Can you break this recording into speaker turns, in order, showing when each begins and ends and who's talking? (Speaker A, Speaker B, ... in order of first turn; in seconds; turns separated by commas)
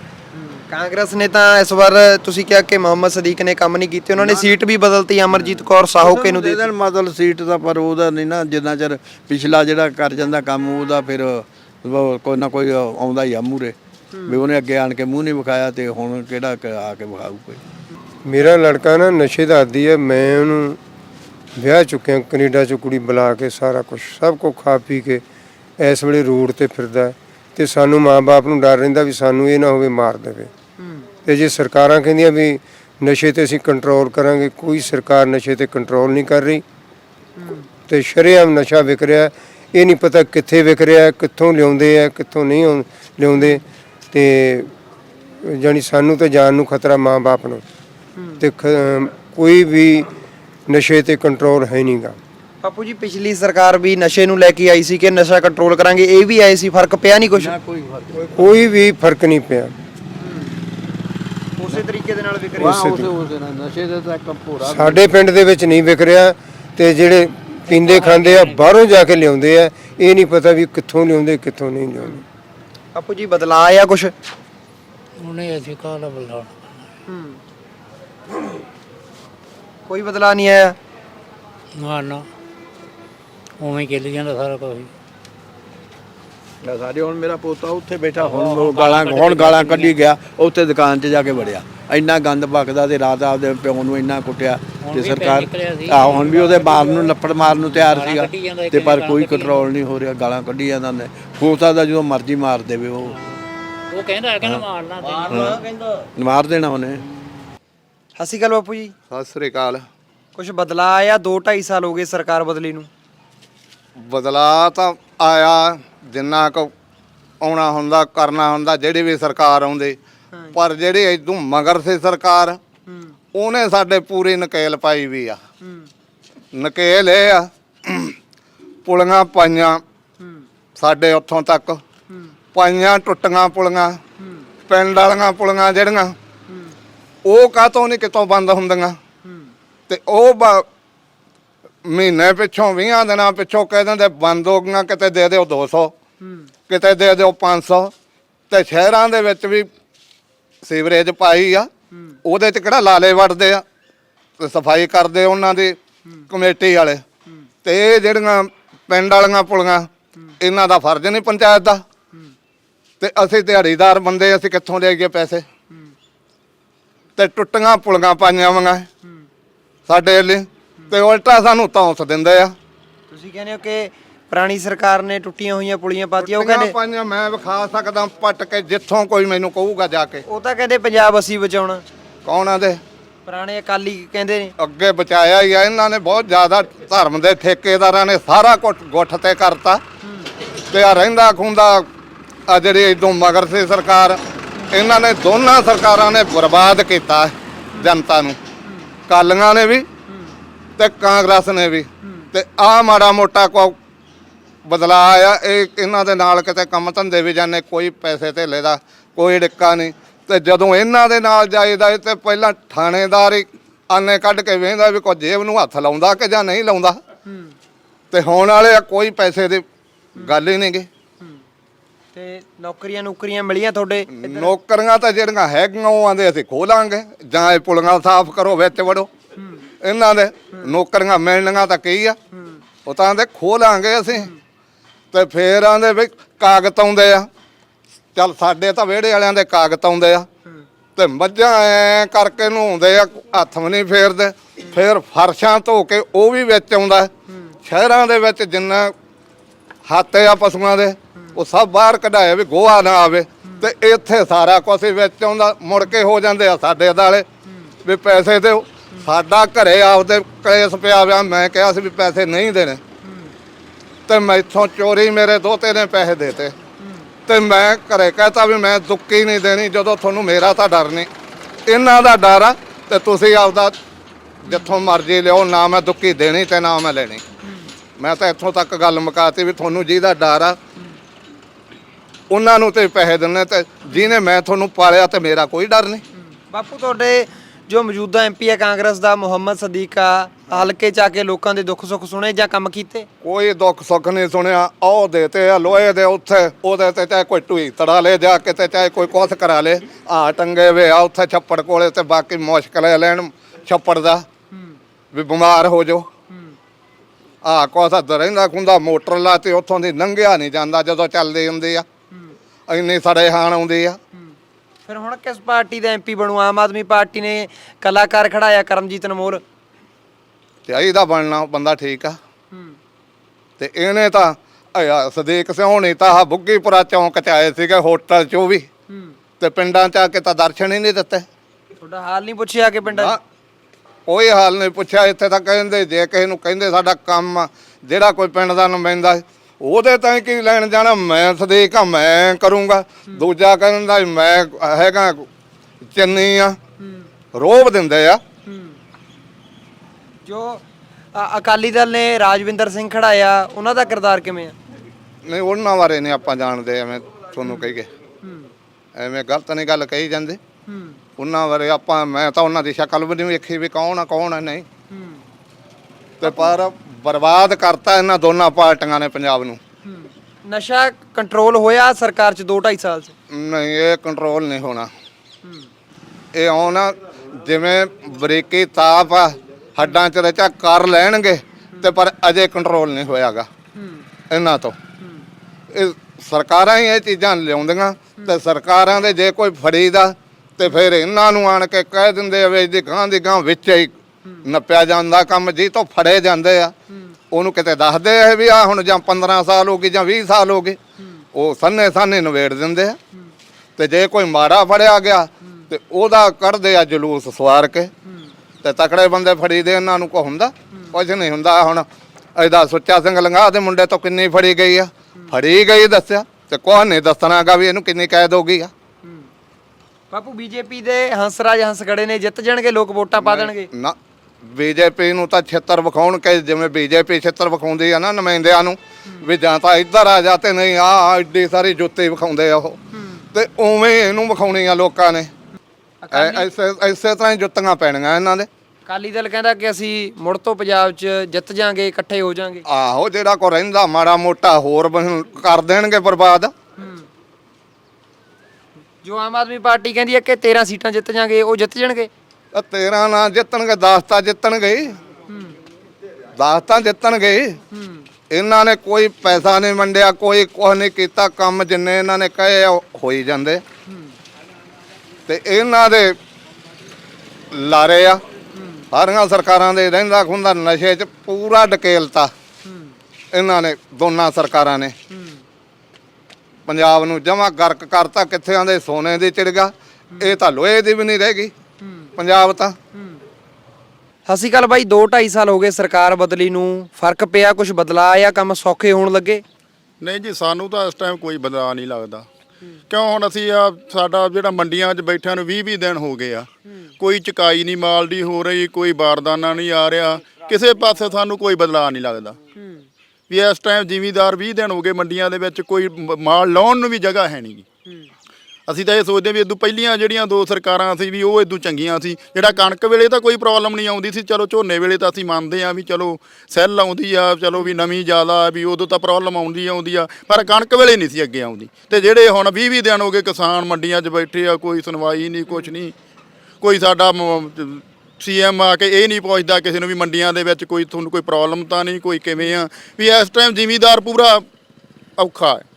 Speaker A: 0.3-6.7, Speaker B: 4.2-4.6, Speaker B: 5.3-13.7, Speaker A: 14.1-14.4, Speaker B: 14.3-17.6, Speaker C: 18.2-20.8, Speaker C: 21.6-25.2, Speaker C: 25.8-30.5, Speaker A: 30.8-31.1, Speaker C: 31.2-36.6, Speaker A: 37.4-37.7, Speaker C: 37.9-44.7, Speaker A: 43.3-43.6, Speaker C: 45.4-47.6, Speaker C: 48.4-50.1, Speaker C: 50.7-52.2, Speaker A: 52.6-57.5, Speaker B: 57.3-58.6, Speaker C: 58.3-59.7, Speaker A: 60.2-60.5, Speaker A: 61.6-62.9, Speaker B: 62.6-65.1, Speaker C: 62.6-63.1, Speaker C: 64.6-72.2, Speaker D: 67.7-68.7, Speaker A: 72.9-74.1, Speaker D: 75.2-76.9, Speaker A: 77.1-77.4, Speaker A: 79.9-80.8, Speaker D: 81.7-82.2, Speaker D: 83.6-84.9, Speaker B: 86.6-103.1, Speaker D: 88.2-90.0, Speaker D: 94.8-99.6, Speaker D: 103.0-105.8, Speaker B: 105.3-105.6, Speaker B: 106.2-107.0, Speaker A: 108.2-108.9, Speaker E: 109.1-109.8, Speaker A: 110.3-112.9, Speaker E: 114.0-116.7, Speaker E: 117.4-120.0, Speaker E: 120.5-122.6, Speaker A: 122.9-123.1, Speaker E: 123.3-125.4, Speaker A: 125.6-125.9, Speaker E: 126.5-128.2, Speaker E: 128.8-129.8, Speaker E: 130.8-131.8, Speaker E: 132.5-134.0, Speaker A: 134.2-134.4, Speaker E: 134.7-136.2, Speaker A: 136.5-136.7, Speaker E: 137.2-139.0, Speaker A: 139.2-139.5, Speaker E: 139.9-140.7, Speaker E: 141.8-145.9, Speaker A: 146.2-146.5, Speaker E: 146.7-147.9, Speaker E: 148.5-149.7, Speaker E: 150.6-151.7, Speaker A: 151.9-152.2, Speaker E: 152.2-153.6, Speaker E: 154.4-155.8, Speaker E: 156.3-157.0, Speaker E: 157.6-159.9, Speaker E: 160.4-161.8, Speaker E: 163.0-165.4, Speaker E: 167.2-168.9, Speaker E: 169.9-172.5, Speaker A: 173.1-176.7, Speaker E: 176.2-180.2, Speaker A: 180.2-181.8, Speaker E: 182.2-182.8, Speaker A: 183.2-184.5, Speaker E: 184.6-189.8, Speaker A: 190.0-190.3, Speaker E: 190.7-191.9, Speaker E: 192.5-194.2, Speaker E: 194.7-198.4, Speaker E: 199.1-199.9, Speaker E: 200.8-203.8, Speaker A: 202.0-202.3, Speaker E: 204.6-217.0, Speaker A: 217.3-217.5, Speaker E: 218.1-219.6, Speaker E: 220.2-220.9, Speaker A: 222.1-224.5, Speaker E: 224.1-229.1, Speaker E: 229.8-232.2, Speaker E: 232.8-234.3, Speaker E: 235.1-237.3, Speaker E: 238.1-240.3, Speaker E: 240.9-247.1, Speaker A: 247.3-247.5, Speaker E: 247.6-248.9, Speaker E: 249.9-257.2, Speaker E: 257.8-262.8, Speaker A: 263.0-263.3, Speaker E: 264.1-266.5, Speaker A: 266.8-267.1, Speaker E: 267.3-271.1, Speaker E: 271.6-273.8, Speaker E: 274.4-277.2, Speaker A: 274.5-274.7, Speaker E: 278.0-280.6, Speaker E: 282.3-286.0, Speaker A: 286.3-293.1, Speaker E: 293.2-304.2, Speaker A: 304.5-304.8, Speaker E: 305.1-306.1, Speaker E: 307.4-311.8, Speaker E: 312.7-314.0, Speaker A: 314.9-319.4, Speaker E: 320.7-322.2, Speaker A: 322.5-322.8, Speaker E: 323.6-328.7, Speaker A: 328.9-329.1, Speaker E: 329.4-331.2, Speaker A: 331.8-333.1, Speaker E: 332.9-333.2, Speaker E: 334.1-345.3, Speaker E: 345.8-346.6, Speaker A: 346.8-347.1, Speaker E: 347.3-348.2, Speaker A: 348.5-348.8, Speaker A: 350.2-354.6, Speaker E: 355.2-357.9, Speaker A: 357.4-357.7, Speaker A: 358.2-358.5, Speaker E: 358.9-360.4, Speaker A: 360.7-361.0, Speaker E: 361.2-364.6, Speaker A: 364.9-365.2, Speaker E: 366.2-369.6, Speaker A: 366.2-366.5, Speaker A: 369.8-373.1, Speaker E: 373.3-374.9, Speaker E: 376.3-383.5, Speaker A: 383.7-384.0, Speaker E: 384.3-384.8, Speaker E: 385.7-396.7, Speaker E: 397.3-400.8, Speaker E: 401.3-403.0, Speaker E: 403.8-407.9, Speaker E: 408.6-418.7, Speaker A: 419.0-419.3, Speaker A: 420.1-423.7, Speaker E: 423.2-432.8, Speaker A: 432.9-433.2, Speaker E: 433.3-435.3, Speaker A: 436.0-436.5, Speaker E: 436.1-438.5, Speaker A: 438.9-442.6, Speaker E: 442.7-446.5, Speaker A: 446.8-447.1, Speaker A: 449.0-452.1, Speaker E: 452.5-455.0, Speaker A: 455.3-455.5, Speaker E: 456.4-457.6, Speaker A: 457.7-458.0, Speaker E: 458.3-463.6, Speaker A: 463.9-464.1, Speaker E: 465.3-466.2, Speaker E: 467.5-468.2, Speaker A: 468.6-468.8, Speaker E: 468.9-472.3, Speaker A: 472.6-472.9, Speaker E: 473.3-474.9, Speaker A: 475.1-475.4, Speaker E: 476.7-481.5, Speaker A: 481.8-482.1, Speaker E: 482.2-482.8, Speaker A: 484.3-489.4, Speaker F: 490.0-492.2, Speaker F: 492.9-496.5, Speaker F: 497.0-502.4, Speaker A: 502.6-502.9, Speaker F: 503.3-507.6, Speaker F: 508.7-525.9, Speaker F: 526.6-534.4, Speaker F: 535.2-535.6